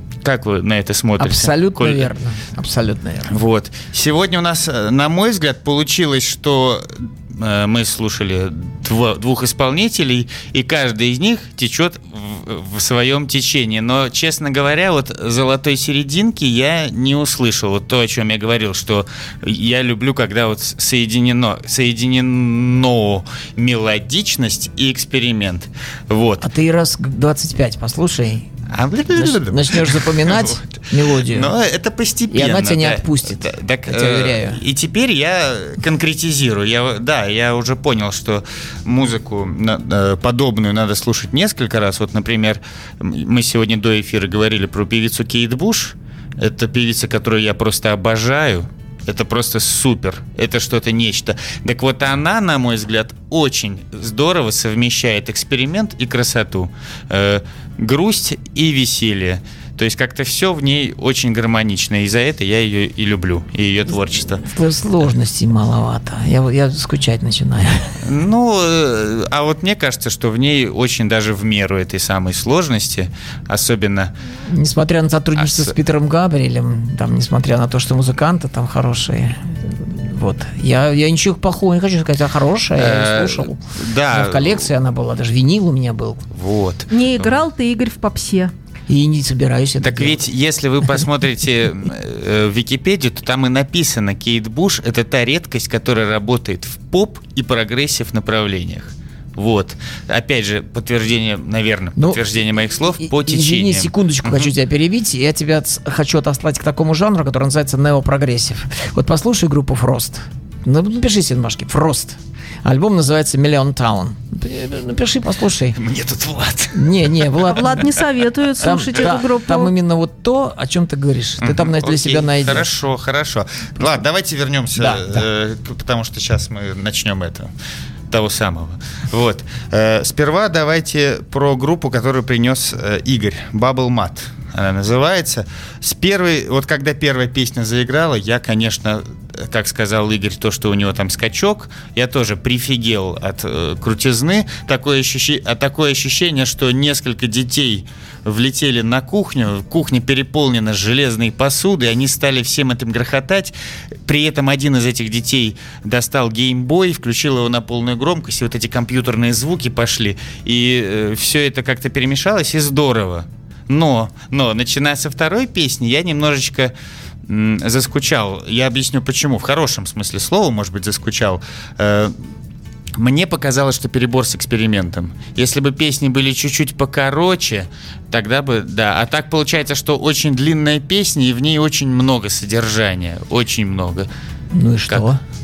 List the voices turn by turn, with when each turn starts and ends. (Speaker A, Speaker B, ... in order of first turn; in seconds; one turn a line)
Speaker A: 0.2-2.1
Speaker B: 1.2-3.4
Speaker A: 3.3-26.5
Speaker B: 26.4-28.5
Speaker A: 28.7-64.5
Speaker B: 29.1-31.6
Speaker B: 32.3-34.6
Speaker B: 63.9-67.9
Speaker A: 68.0-74.1
Speaker B: 74.5-86.2
Speaker A: 75.4-75.7
Speaker A: 82.8-84.7
Speaker A: 86.3-87.4
Speaker C: 86.9-88.5
Speaker B: 88.9-90.2
Speaker A: 89.8-104.5
Speaker B: 102.0-102.2
Speaker B: 103.0-115.8
Speaker A: 115.8-117.9
Speaker B: 116.7-117.9
Speaker C: 117.5-119.7
Speaker B: 118.6-122.7
Speaker A: 121.4-127.5
Speaker B: 124.8-125.2
Speaker A: 128.1-153.6
Speaker A: 154.1-166.7
Speaker A: 167.3-172.2
Speaker A: 173.0-184.1
Speaker B: 184.5-185.2